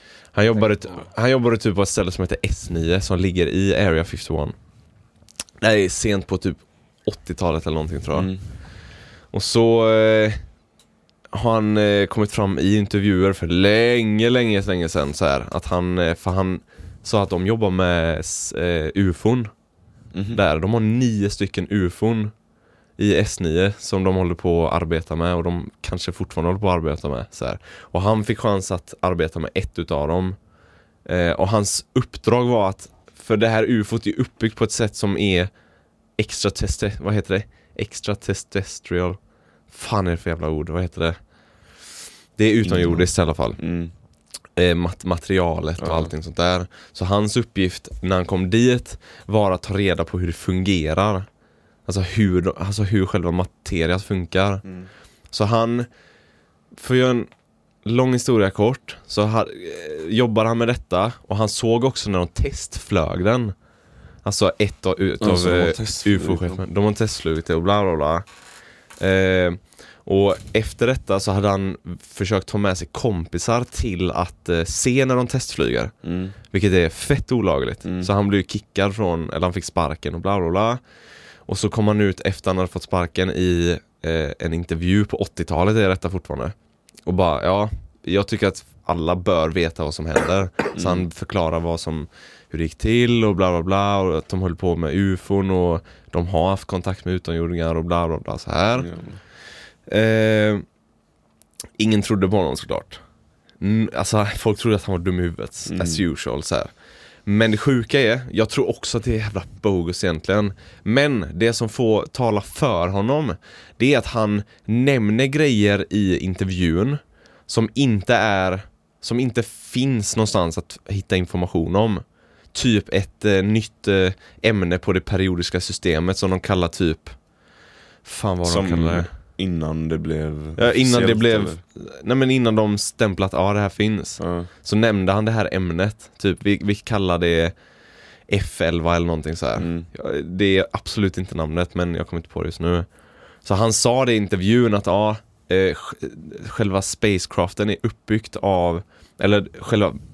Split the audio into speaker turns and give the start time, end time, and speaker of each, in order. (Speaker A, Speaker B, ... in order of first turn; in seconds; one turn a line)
Speaker A: 0.3-4.5
Speaker A: 5.6-8.4
Speaker B: 8.2-8.4
Speaker A: 9.3-10.4
Speaker A: 11.3-19.5
Speaker B: 20.1-20.4
Speaker A: 20.3-22.3
Speaker A: 23.0-30.4
Speaker A: 31.1-35.5
Speaker A: 36.2-39.2
Speaker A: 39.7-41.2
Speaker A: 42.4-43.6
Speaker B: 42.6-43.9
Speaker A: 44.6-51.3
Speaker B: 45.8-46.1
Speaker A: 51.9-54.6
Speaker A: 55.3-55.9
Speaker A: 56.8-57.3
Speaker A: 57.9-63.5
Speaker A: 64.2-68.3
Speaker B: 65.2-66.6
Speaker A: 69.0-75.9
Speaker B: 76.0-76.4
Speaker A: 76.5-80.8
Speaker B: 77.8-78.1
Speaker A: 81.5-86.5
Speaker A: 87.1-98.9
Speaker B: 90.8-91.0
Speaker B: 98.8-99.2
Speaker A: 99.9-100.6
Speaker A: 101.8-103.0
Speaker A: 103.6-106.7
Speaker B: 105.7-106.0
Speaker A: 107.2-127.2
Speaker A: 128.0-129.1
Speaker B: 128.5-131.6
Speaker A: 130.6-137.6
Speaker B: 134.2-134.5
Speaker A: 138.3-142.9
Speaker B: 139.6-139.9
Speaker A: 143.4-150.0